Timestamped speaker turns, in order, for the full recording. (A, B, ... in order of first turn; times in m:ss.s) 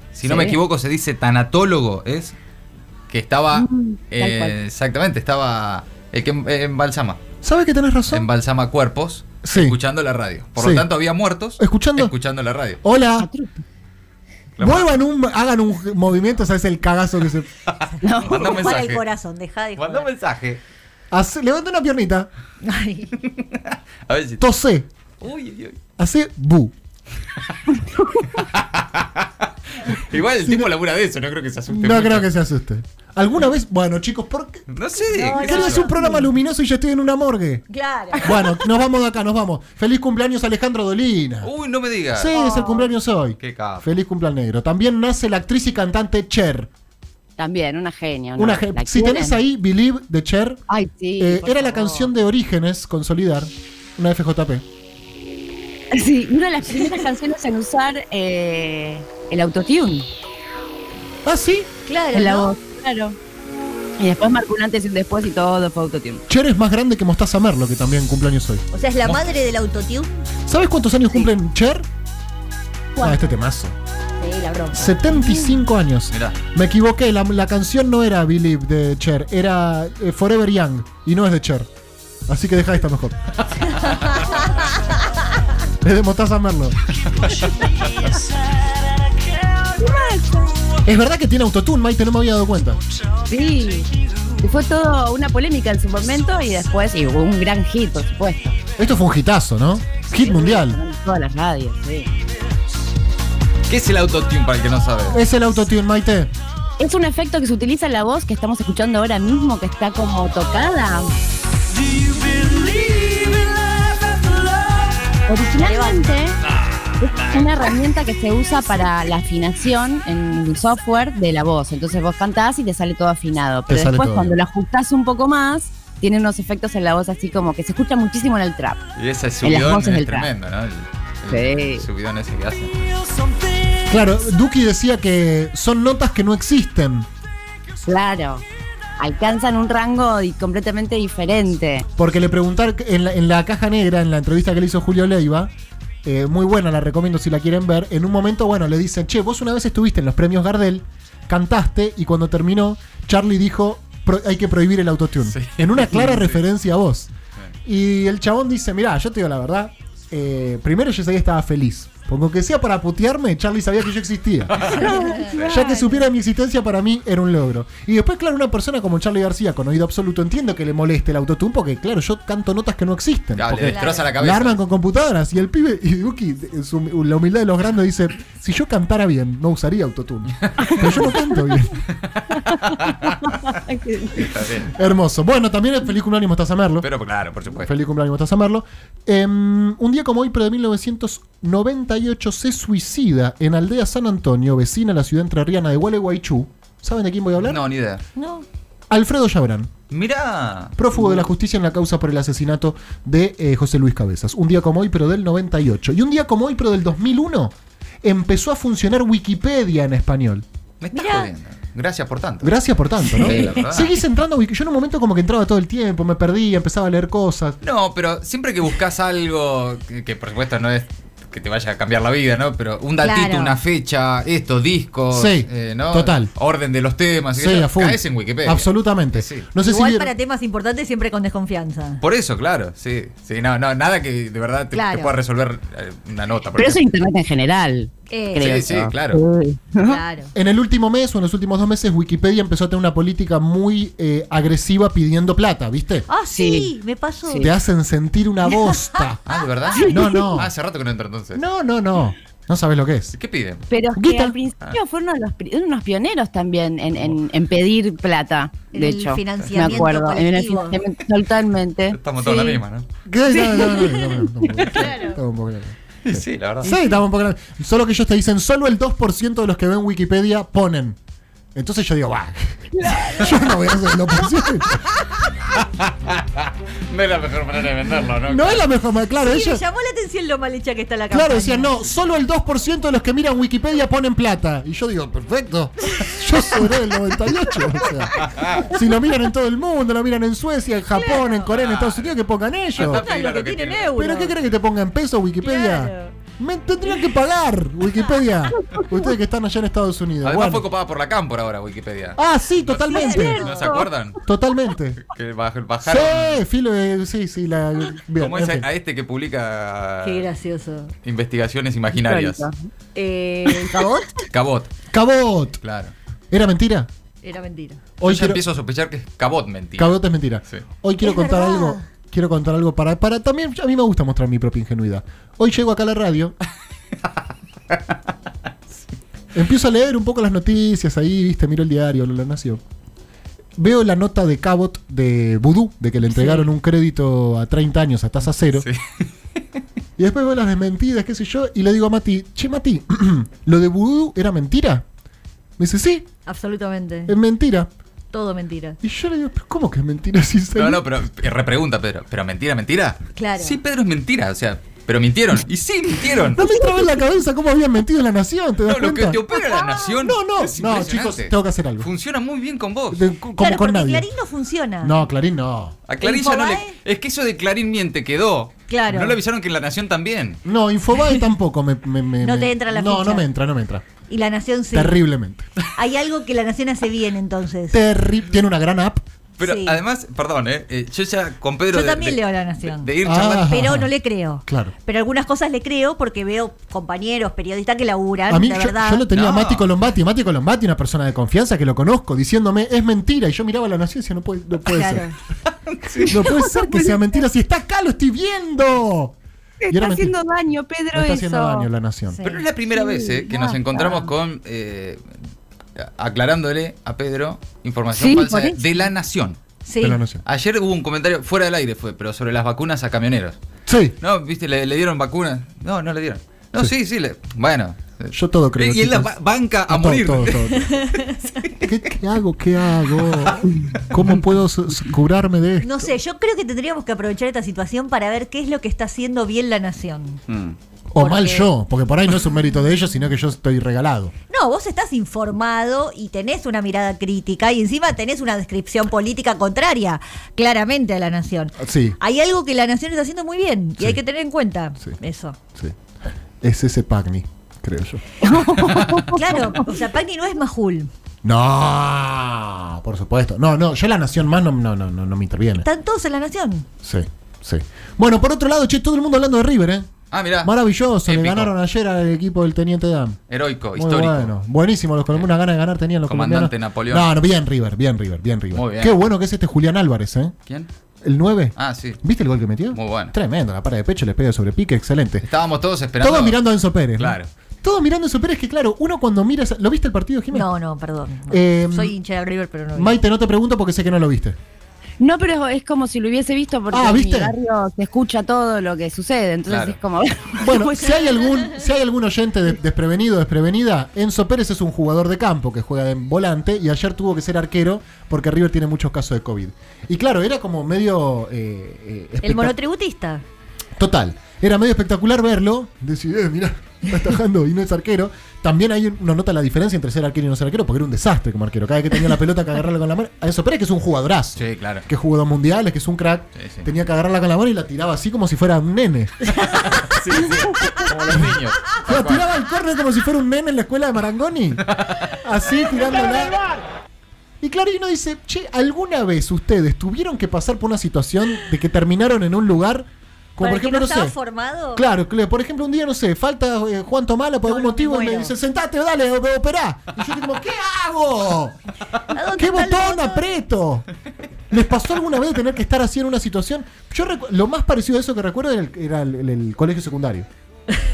0:00.1-0:02.4 A
0:00.2-0:00.6 B
0:03.1-0:07.2 A
0:03.5-0:04.6 B
0:07.4-0:08.3 C
0:08.1-0:12.8 A
0:09.4-0:09.8 C
0:10.6-0:10.9 C
0:11.6-0:12.1 C
0:12.8-0:13.3 C
0:13.2-0:13.6 B
0:14.6-0:14.9 A
0:14.6-0:17.5 C
0:17.7-0:19.0 A
0:18.0-0:18.7 B
0:18.2-0:20.1 D
0:19.8-0:20.6 A
0:21.1-0:22.3 C
0:22.6-0:23.1 D
0:23.2-0:24.4 A
0:24.4-0:24.9 C
0:25.2-0:25.8 A
0:26.0-0:26.7 C
0:27.9-0:28.3 B
0:28.4-0:29.3 A
0:29.8-0:32.3 A
0:30.4-0:30.7 C
0:31.7-0:34.7 C
0:34.7-0:35.9 A
0:35.1-0:36.3 D
0:35.3-0:37.6 C
0:37.7-0:38.4 D
0:38.2-0:41.5 C
0:41.4-0:42.3 A
0:42.1-0:46.7 C
0:42.3-0:42.8 B
0:43.4-0:43.9 A
0:47.4-0:49.4 B
0:48.4-0:50.6 C
0:50.7-0:52.1 B
0:51.2-0:54.6 C
0:55.9-1:00.1 B
1:01.2-1:01.7 C
1:01.9-1:02.5 D
1:02.1-1:03.2 B
1:04.0-1:06.2 B
1:06.3-1:08.6 C
1:08.7-1:10.1 D
1:10.5-1:11.9 C
1:13.0-1:13.2 B
1:13.0-1:13.8 C
1:14.2-1:15.0 D
1:14.7-1:21.7 C
1:15.1-1:15.6 B
1:16.1-1:16.4 A
1:22.3-1:23.3 C
1:23.5-1:24.5 A
1:23.9-1:24.3 D
1:25.8-1:26.8 C
1:29.8-1:30.6 B
1:30.9-1:32.8 C
1:33.3-1:33.9 B
1:34.4-1:38.6 B
1:38.8-1:40.8 C
1:40.1-1:42.1 B
1:43.7-1:45.2 A
1:45.1-1:46.3 C
1:46.8-1:51.1 B
1:51.8-1:55.0 E
1:55.3-1:56.4 B
1:55.6-1:56.1 D
1:57.0-2:08.8 B
2:03.7-2:04.4 C
2:09.0-2:12.7 A
2:09.4-2:10.3 B
2:11.3-2:11.8 B
2:13.9-2:17.1 C
2:17.8-2:18.4 B
2:19.0-2:21.9 B
2:22.0-2:25.5 C
2:26.0-2:37.1 C
2:35.3-2:36.4 A
2:37.6-3:01.8 C
2:44.5-2:45.5 A
2:44.8-2:46.0 D
2:44.8-2:45.8 B
2:53.4-2:54.6 A
2:53.6-2:54.1 D
3:00.5-3:00.8 A
3:01.9-3:03.5 A
3:02.5-3:04.3 B
3:04.2-3:04.7 A
3:04.7-3:06.9 C
3:06.8-3:07.7 A
3:07.5-3:17.6 C
3:17.4-3:18.0 A
3:18.2-3:18.4 D
3:18.9-3:19.7 C
3:19.9-3:20.8 A
3:20.8-3:30.4 C
3:30.8-3:32.6 A
3:30.9-3:31.3 D
3:32.4-3:37.6 C
3:33.1-3:33.7 D
3:33.1-3:33.9 A
3:37.6-3:49.5 A
3:43.0-3:43.6 D
3:45.1-3:46.3 C
3:47.4-3:50.1 C
3:49.6-3:52.0 D
3:52.0-3:56.8 A
3:54.7-3:55.1 D
3:56.6-4:00.0 B
3:58.1-3:58.6 D
3:58.4-3:59.2 A
3:59.8-4:00.3 D
4:00.3-4:06.1 C
4:06.1-4:07.5 D
4:06.3-4:06.7 B
4:07.3-4:07.5 B
4:07.4-4:09.2 C
4:09.3-4:11.4 A
4:09.7-4:10.2 B
4:09.8-4:10.5 C
4:11.4-4:13.2 C
4:13.1-4:13.7 A
4:13.7-4:22.6 B
4:14.0-4:14.4 C
4:18.7-4:20.8 D
4:21.9-4:22.9 A
4:23.1-4:31.0 C
4:23.3-4:25.2 B
4:26.0-4:26.8 A
4:31.6-4:34.9 C
4:32.7-4:33.5 B
4:35.5-4:38.7 A
4:38.2-4:39.6 C
4:39.2-4:41.8 D
4:41.1-4:53.0 C
4:48.2-4:48.7 A
4:50.9-4:51.5 D
4:51.5-4:52.2 A
4:52.8-4:54.0 A
4:52.8-4:54.4 D
4:54.0-5:00.7 C
4:55.4-4:56.2 D
5:00.2-5:04.2 A
5:02.2-5:03.5 C
5:02.8-5:03.8 D
5:03.1-5:03.9 B
5:04.2-5:05.0 C
5:05.1-5:06.4 A
5:05.8-5:08.7 C
5:08.2-5:10.3 A
5:10.0-5:10.9 D
5:11.0-5:12.4 A
5:11.9-5:12.7 B
5:13.0-5:14.1 D
5:14.3-5:14.7 A
5:14.9-5:15.6 C
5:15.6-5:15.9 A
5:16.3-5:16.9 C
5:17.2-5:17.8 D
5:18.0-5:18.4 C
5:18.0-5:20.6 A
5:19.8-5:26.4 C
5:21.0-5:21.9 D
5:29.3-5:32.6 C
5:33.6-5:38.7 C
5:36.1-5:36.5 D
5:38.6-5:39.0 A
5:40.0-5:44.8 C
5:45.6-5:46.1 C
5:46.3-5:47.2 D
5:47.1-5:47.7 C
5:48.1-5:48.8 D
5:48.8-5:50.8 C
5:50.6-5:56.4 A
5:53.2-5:53.6 D
5:56.3-5:59.2 C
5:58.7-6:03.0 A
5:59.3-5:59.9 D
6:00.0-6:01.9 C
6:02.9-6:04.1 C
6:03.4-6:05.0 D
6:04.8-6:05.8 C
6:05.9-6:10.4 A
6:06.0-6:06.8 D
6:08.7-6:09.2 D
6:10.4-6:13.8 C
6:12.2-6:13.3 D
6:14.1-6:15.0 D
6:14.7-6:15.4 C
6:15.8-6:17.8 D
6:17.7-6:19.0 C
6:19.4-6:23.7 A
6:19.4-6:19.8 D
6:21.7-6:29.0 D
6:23.0-6:23.9 C
6:24.5-6:24.7 C
6:28.3-6:35.1 C
6:29.1-6:29.7 A
6:34.6-6:35.2 D
6:35.7-6:36.3 A
6:36.0-6:39.2 C
6:36.2-6:37.0 B
6:39.6-6:41.7 B
6:39.7-6:40.2 C
6:40.9-6:42.2 C
6:42.1-6:42.4 D
6:42.2-6:45.1 A
6:42.7-6:44.1 B
6:45.8-6:49.4 A
6:48.0-6:48.6 B
6:49.6-6:50.0 D
6:49.8-6:50.2 C
6:50.2-6:53.4 A
6:53.7-6:54.0 C
6:54.0-7:01.7 A
6:58.1-6:59.1 C
6:59.7-7:00.7 C
7:00.7-7:01.2 D
7:01.6-7:05.9 C
7:03.1-7:03.4 A
7:05.6-7:10.2 D
7:10.3-7:10.6 A
7:10.9-7:14.1 C
7:11.0-7:11.5 D
7:14.3-7:25.4 D
7:21.6-7:22.0 C
7:25.6-7:28.0 C
7:28.2-7:29.6 B
7:28.6-7:29.0 C
7:29.1-7:30.9 D
7:31.2-7:35.7 C
7:35.6-7:36.7 D
7:36.8-7:39.9 C
7:40.1-7:40.5 A
7:40.4-7:43.2 C
7:41.0-7:41.5 A
7:43.3-7:44.3 A
7:43.8-7:50.4 C
7:46.0-7:47.1 A
7:48.5-7:49.1 A
7:51.0-7:55.3 C
7:51.6-7:52.0 A
7:52.7-7:53.1 A
7:55.2-7:56.4 A
7:56.0-8:00.5 C
7:57.0-7:57.3 A
8:00.3-8:03.0 D
8:01.3-8:02.0 C
8:02.7-8:04.4 C
8:05.0-8:11.3 B
8:06.7-8:07.4 C
8:09.5-8:09.8 A
8:10.4-8:22.6 C
8:22.2-8:23.2 D
8:23.8-8:39.3 C
8:34.4-8:34.9 A
8:36.4-8:36.7 A
8:39.5-8:39.8 D
8:39.8-8:42.3 A
8:40.2-8:46.4 C
8:44.7-8:45.0 A
8:47.4-8:54.2 C
8:53.4-8:54.8 D
8:54.8-9:01.6 C
8:57.4-8:58.3 D
9:02.1-9:03.4 D
9:02.3-9:03.9 C
9:04.5-9:10.3 C